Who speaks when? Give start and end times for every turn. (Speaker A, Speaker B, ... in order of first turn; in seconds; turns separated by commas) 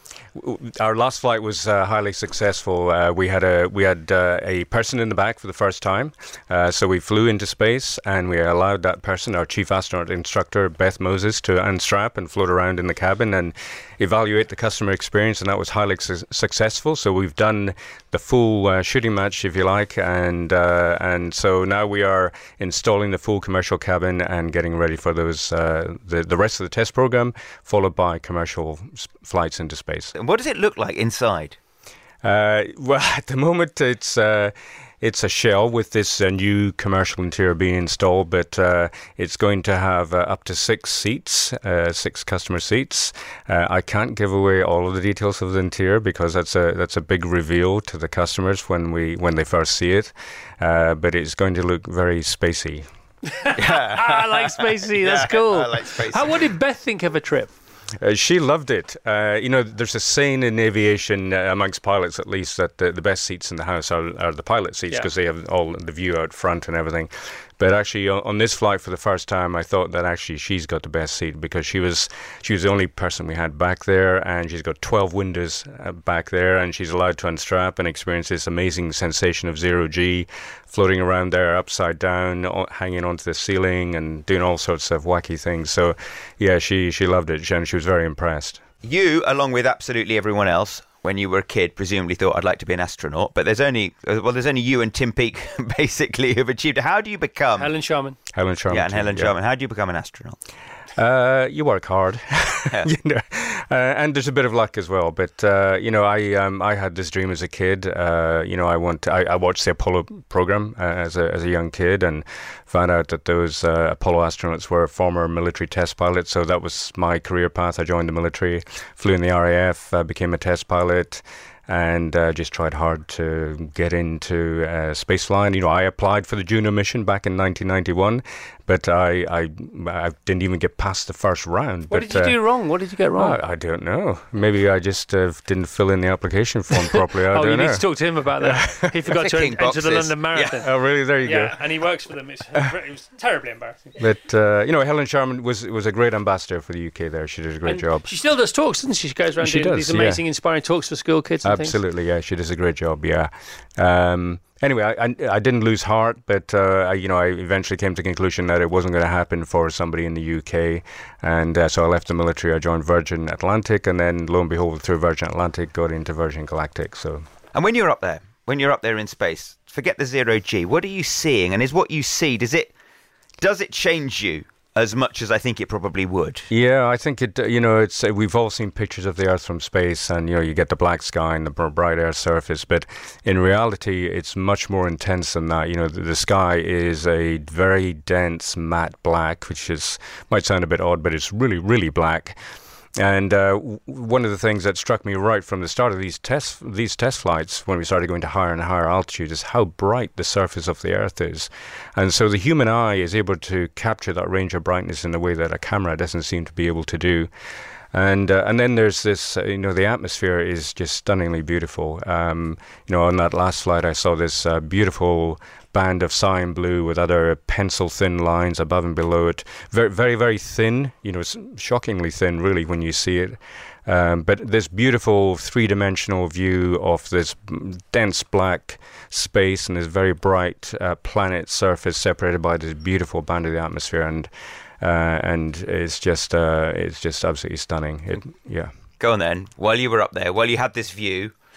Speaker A: 0.3-30.1, Speaker B: 30.1-31.6, Speaker A: 32.2-52.9, Speaker C: 53.3-57.5, Speaker B: 53.5-56.4, Speaker A: 58.0-88.6, Speaker B: 88.8-97.7, Speaker C: 97.6-98.2, Speaker A: 98.3-99.3, Speaker B: 98.7-100.4, Speaker A: 101.0-132.4, Speaker C: 131.9-133.4, Speaker A: 133.1-137.9, Speaker C: 136.8-140.7, Speaker A: 138.4-139.2, Speaker B: 139.2-140.5, Speaker A: 140.6-141.6, Speaker C: 141.2-143.9, Speaker A: 144.0-148.1, Speaker C: 147.6-151.8, Speaker A: 149.4-150.2, Speaker A: 151.4-167.2, Speaker B: 167.5-172.7, Speaker B: 173.4-176.5, Speaker A: 176.5-192.4, Speaker A: 193.0-207.3, Speaker A: 207.9-234.3, Speaker A: 234.8-238.7, Speaker B: 239.0-241.3